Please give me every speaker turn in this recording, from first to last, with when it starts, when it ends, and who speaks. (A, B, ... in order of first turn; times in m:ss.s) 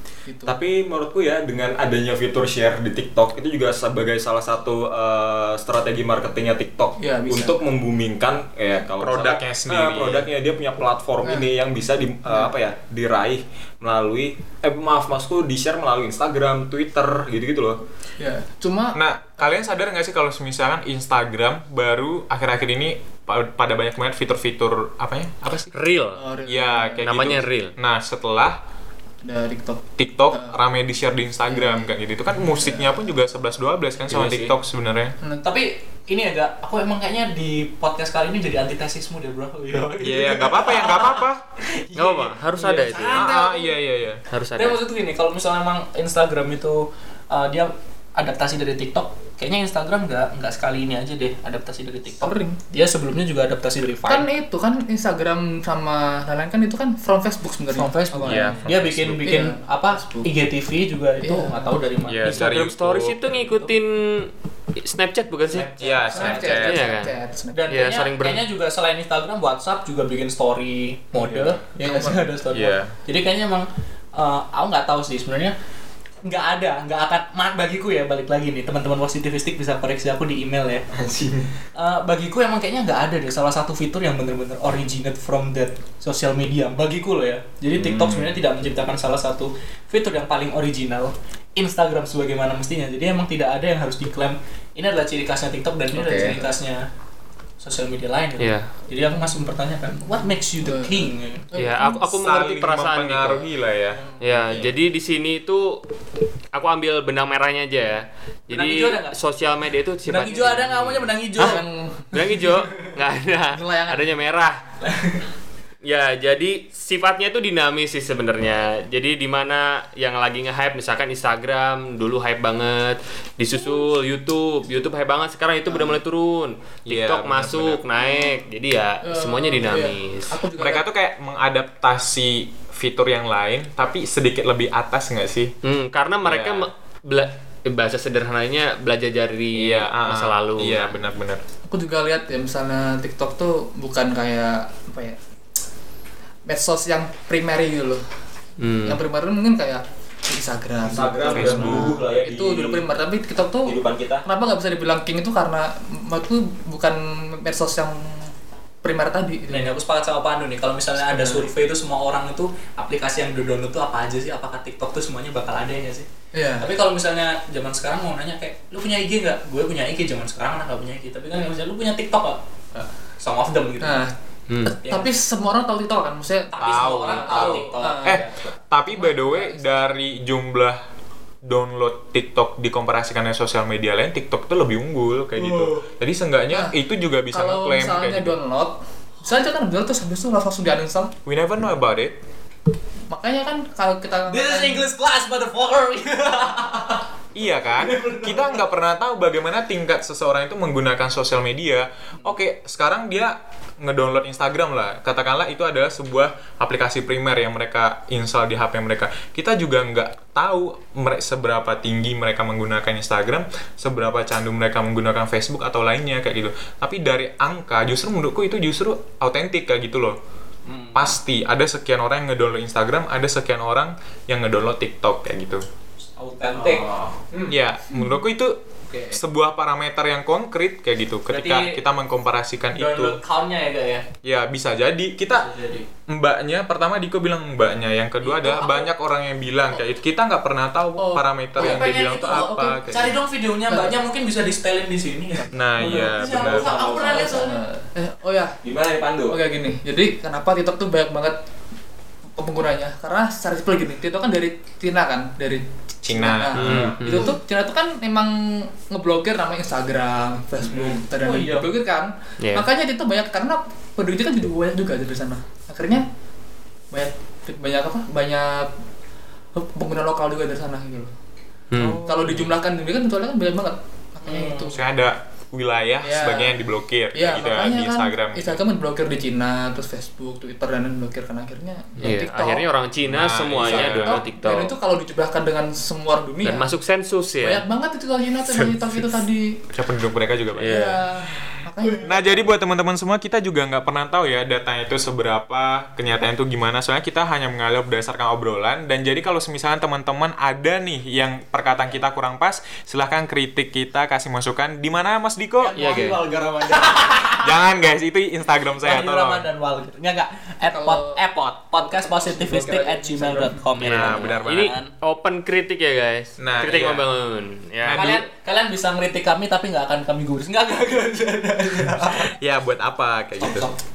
0:00.2-0:00.6 A
0:00.4-0:17.8 B
0:07.0-0:07.6 A
0:09.0-0:10.3 C
0:11.2-0:11.5 A
0:18.2-0:19.0 A
0:18.9-0:25.6 C
0:25.7-0:26.2 D
0:26.1-0:27.1 A
0:26.5-0:28.6 C
0:27.0-0:27.7 D
0:29.2-0:30.6 A
0:30.0-0:35.2 C
0:31.5-0:31.9 A
0:32.5-0:32.9 A
0:34.1-0:34.5 E
0:35.2-0:35.5 A
0:35.4-0:43.8 E
0:39.9-0:41.5 C
0:41.9-0:43.3 D
0:43.1-0:44.2 C
0:44.3-0:44.8 D
0:44.5-0:54.3 E
0:52.2-0:52.6 A
0:54.0-0:58.6 A
0:57.7-1:02.4 E
0:58.2-0:59.3 C
0:59.2-1:00.3 A
1:01.2-1:01.7 A
1:02.0-1:03.3 C
1:02.2-1:05.7 D
1:03.4-1:03.7 E
1:05.5-1:06.5 E
1:05.7-1:06.9 C
1:06.1-1:07.6 A
1:06.4-1:07.1 D
1:07.5-1:15.6 E
1:07.7-1:08.4 D
1:11.2-1:11.5 B
1:11.8-1:12.3 A
1:12.5-1:12.9 C
1:16.2-1:20.9 E
1:20.9-1:21.5 B
1:21.7-1:36.9 E
1:27.8-1:28.4 C
1:36.0-1:36.4 B
1:37.6-1:41.5 E
1:38.4-1:38.7 D
1:40.6-1:42.1 A
1:41.6-1:43.5 D
1:42.1-1:44.7 C
1:44.2-1:45.8 D
1:46.5-1:51.6 D
1:48.5-1:49.2 E
1:50.0-1:51.6 E
1:51.4-1:52.4 A
1:52.1-1:54.6 D
1:53.5-1:54.1 A
1:54.8-1:55.2 E
1:55.8-2:10.4 D
2:06.9-2:07.8 C
2:09.0-2:10.8 A
2:10.6-2:15.5 C
2:15.6-2:21.0 D
2:16.2-2:16.7 C
2:19.5-2:21.4 C
2:21.7-2:25.2 A
2:26.4-2:28.0 A
2:28.6-2:29.0 D
2:28.8-2:38.3 A
2:30.8-2:32.9 B
2:31.3-2:31.9 C
2:33.6-2:34.2 B
2:38.8-2:39.7 A
2:39.5-2:46.1 E
2:41.1-2:41.5 A
2:46.3-2:46.7 A
2:46.6-2:52.4 E
2:53.2-2:54.0 E
2:53.8-2:58.2 A
2:54.5-2:54.7 D
2:54.6-2:55.1 E
2:56.5-2:58.5 E
2:56.6-3:00.8 C
2:58.9-3:00.0 A
3:01.4-3:08.3 C
3:05.4-3:05.8 E
3:06.5-3:06.8 A
3:07.3-3:11.1 A
3:11.2-3:12.1 C
3:13.1-3:14.9 A
3:14.3-3:17.0 E
3:17.3-3:40.2 C
3:17.8-3:18.6 E
3:40.6-3:41.2 E
3:40.9-3:45.6 C
3:46.2-3:47.5 E
3:47.5-3:48.6 C
3:48.9-3:49.2 E
3:49.1-3:53.2 C
3:51.3-3:51.8 E
3:52.7-3:54.1 E
3:54.2-3:55.5 C
3:55.3-3:55.9 E
3:56.1-4:03.2 C
3:58.2-3:58.9 E
4:01.0-4:02.4 A
4:01.6-4:07.6 E
4:03.7-4:04.0 A
4:05.4-4:06.1 A
4:05.5-4:06.9 C
4:06.2-4:07.5 B
4:06.9-4:08.6 A
4:08.6-4:09.4 B
4:09.3-4:11.4 A
4:12.4-4:26.1 A
4:16.0-4:17.0 C
4:16.6-4:17.3 D
4:16.6-4:16.9 B
4:20.6-4:21.7 E
4:22.4-4:22.7 D
4:26.9-4:28.7 A
4:29.5-4:31.1 A
4:31.7-4:32.5 D
4:32.0-4:34.8 A
4:34.2-4:34.8 E
4:34.7-4:38.6 C
4:36.0-4:36.6 A
4:37.1-4:42.6 A
4:42.0-4:44.7 D
4:43.0-4:44.2 C
4:43.6-4:46.7 A
4:46.4-4:47.6 D
4:47.4-4:49.6 A
4:49.7-4:51.0 C
4:50.6-4:52.3 A
4:52.0-5:05.8 C
5:05.6-5:07.6 E
5:05.8-5:06.2 D
5:06.2-5:07.0 B
5:07.3-5:09.5 C
5:08.7-5:14.9 E
5:10.7-5:11.2 A
5:11.8-5:13.6 A
5:13.8-5:14.7 C
5:13.8-5:18.2 D
5:16.4-5:17.1 C
5:17.8-5:18.2 C
5:17.9-5:22.3 E
5:22.0-5:23.7 C
5:23.4-5:23.8 E